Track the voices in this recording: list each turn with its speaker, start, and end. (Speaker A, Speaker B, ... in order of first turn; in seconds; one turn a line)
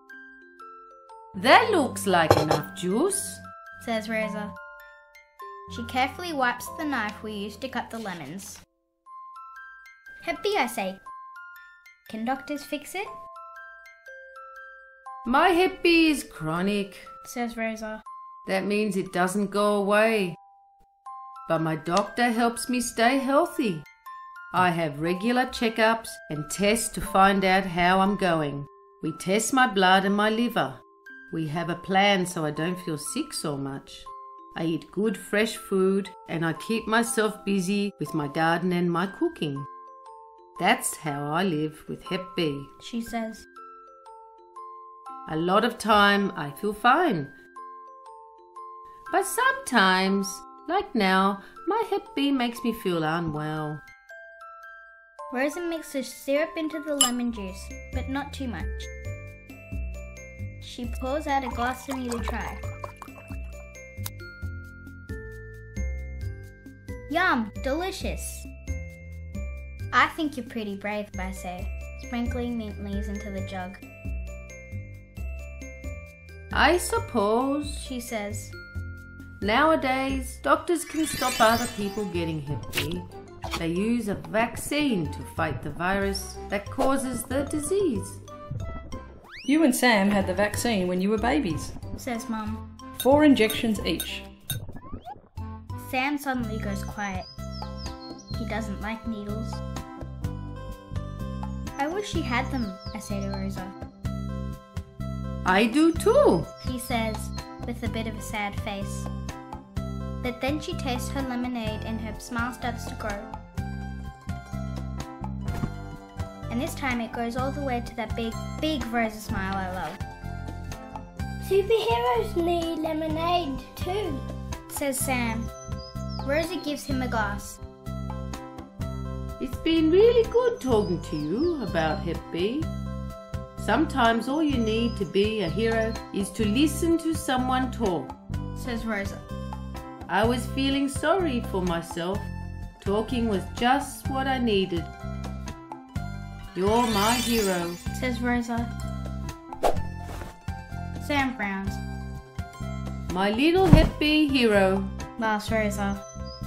Speaker A: 1.4-3.4
Speaker B: 3.8-4.5
Speaker B: 5.7-8.6
Speaker B: 10.2-11.0
Speaker B: 12.1-13.1
Speaker A: 15.2-17.1
Speaker B: 17.3-18.0
Speaker A: 18.5-20.4
Speaker A: 21.5-23.8
Speaker A: 24.5-39.7
Speaker A: 40.6-42.7
Speaker B: 42.8-43.5
Speaker A: 45.3-47.3
Speaker A: 49.1-53.8
Speaker B: 55.3-58.9
Speaker B: 60.6-62.6
Speaker B: 67.1-68.5
Speaker B: 69.9-73.8
Speaker A: 76.5-77.8
Speaker B: 77.8-78.5
Speaker A: 79.4-88.2
Speaker C: 89.5-91.7
Speaker B: 92.0-92.6
Speaker C: 93.0-94.2
Speaker B: 95.8-97.3
Speaker B: 98.4-99.6
Speaker B: 101.8-103.7
Speaker A: 105.5-106.5
Speaker B: 106.6-109.1
Speaker B: 110.2-113.3
Speaker B: 116.5-120.0
Speaker D: 121.4-124.2
Speaker B: 124.7-125.5
Speaker B: 126.2-127.6
Speaker A: 129.4-132.7
Speaker A: 133.6-138.1
Speaker B: 138.6-139.2
Speaker A: 140.1-144.9
Speaker A: 146.5-147.8
Speaker B: 147.9-148.7
Speaker B: 151.0-151.8
Speaker A: 153.1-154.9
Speaker B: 155.2-156.0